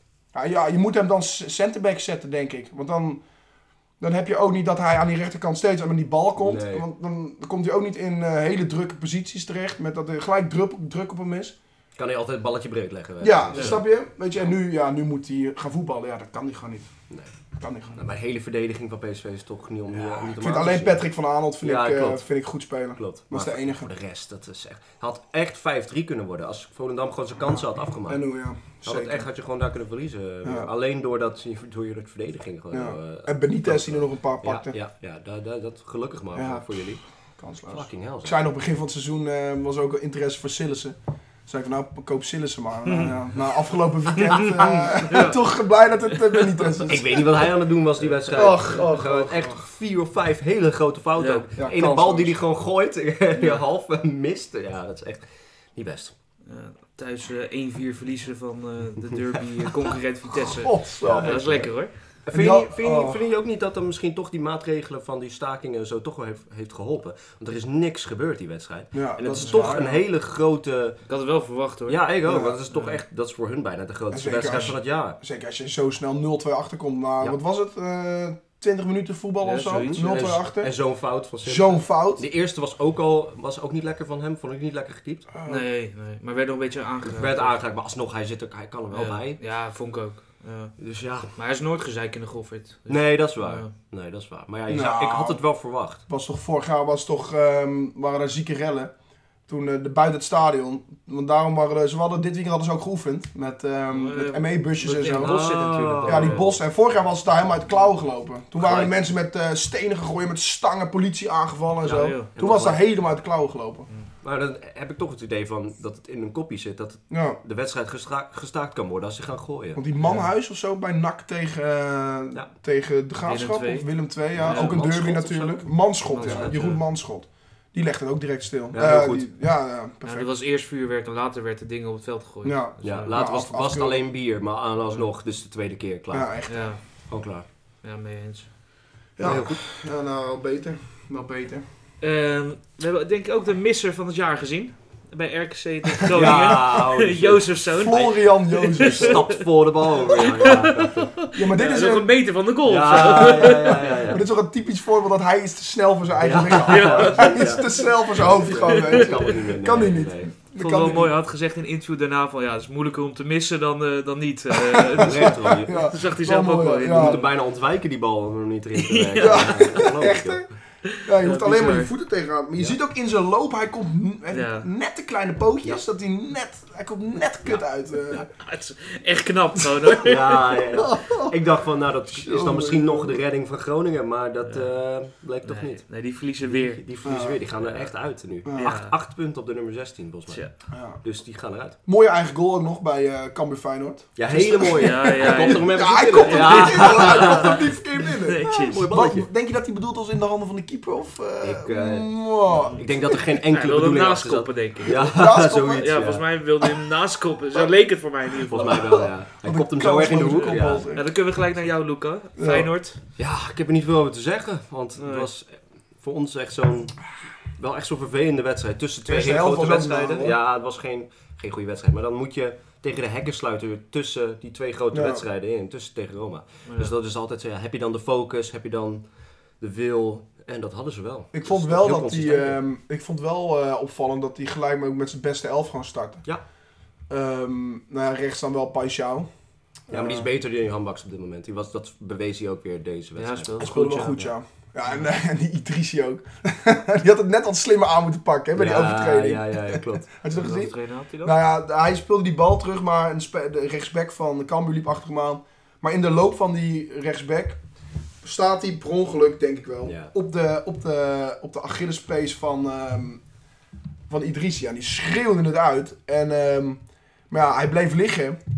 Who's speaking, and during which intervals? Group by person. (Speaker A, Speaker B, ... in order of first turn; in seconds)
Speaker A: 0.3-3.2, 4.0-11.6, 13.2-16.9, 17.6-18.0, 19.9-23.9, 28.1-29.3, 30.4-30.7, 32.7-34.8, 36.3-47.5, 48.3-49.6, 51.6-52.4, 60.4-61.5, 62.3-63.2, 68.9-70.0, 72.2-72.6, 74.1-80.7, 81.4-82.2, 85.3-85.7, 94.7-95.4, 96.1-98.9, 99.5-113.9, 117.1-117.4, 119.8-130.3, 132.4-134.1, 136.1-136.8, 139.2-141.6, 146.1-146.6, 147.8-149.2, 151.3-152.1, 152.9-161.1, 164.7-167.2, 169.2-178.3, 180.8-181.3, 182.1-183.2, 187.0-187.4, 188.4-188.8, 190.7-191.0, 191.8-203.2, 204.9-206.0, 208.6-211.1, 212.4-212.7, 219.1-220.4, 224.9-225.2, 231.3-236.2, 237.1-239.3, 239.9-240.3, 243.6-257.6, 258.2-263.2, 264.1-268.4
Speaker B: 6.4-6.9, 11.9-13.8, 17.9-21.1, 21.6-22.3, 22.9-37.0, 37.6-38.4, 44.5-45.2, 46.9-56.1, 61.0-71.0, 71.9-75.2, 79.7-85.3, 87.0-89.4, 90.8-91.3, 92.9-96.0, 105.0-106.6, 108.6-108.9, 111.8-112.8, 114.2-119.8, 124.3-126.7, 128.7-129.3, 132.8-136.5, 137.1-137.4, 139.2-139.6, 146.1-147.6, 148.8-151.1, 152.7-154.2, 156.2-160.3, 165.0-165.8, 166.9-170.4, 180.0-191.8, 194.2-197.6, 198.5-199.3, 201.4-206.2, 208.5-210.9, 213.2-217.0, 217.6-232.6, 239.9-243.6, 248.5-250.1, 259.9-260.1
Speaker C: 42.9-43.1, 44.1-45.4, 51.2-51.4, 56.5-61.9, 69.4-69.8, 71.1-72.0, 72.7-73.0, 79.4-80.2, 85.4-87.6, 88.9-90.7, 91.3-93.7, 103.9-106.5, 111.9-112.3, 120.0-120.3, 123.2-124.8, 126.1-126.8, 130.0-133.1, 136.5-137.1, 137.8-138.5, 142.0-149.4, 150.1-154.1, 156.7-157.9, 158.7-159.3, 160.6-167.2, 168.8-169.8, 170.9-171.9, 174.3-174.7, 178.1-180.6, 184.4-184.8, 185.4-186.8, 188.6-188.9, 194.8-197.6, 198.2-198.8, 202.5-202.8, 203.4-205.1, 205.8-209.1, 210.9-213.0, 215.0-215.3, 226.7-226.9, 243.2-244.3, 250.3-251.4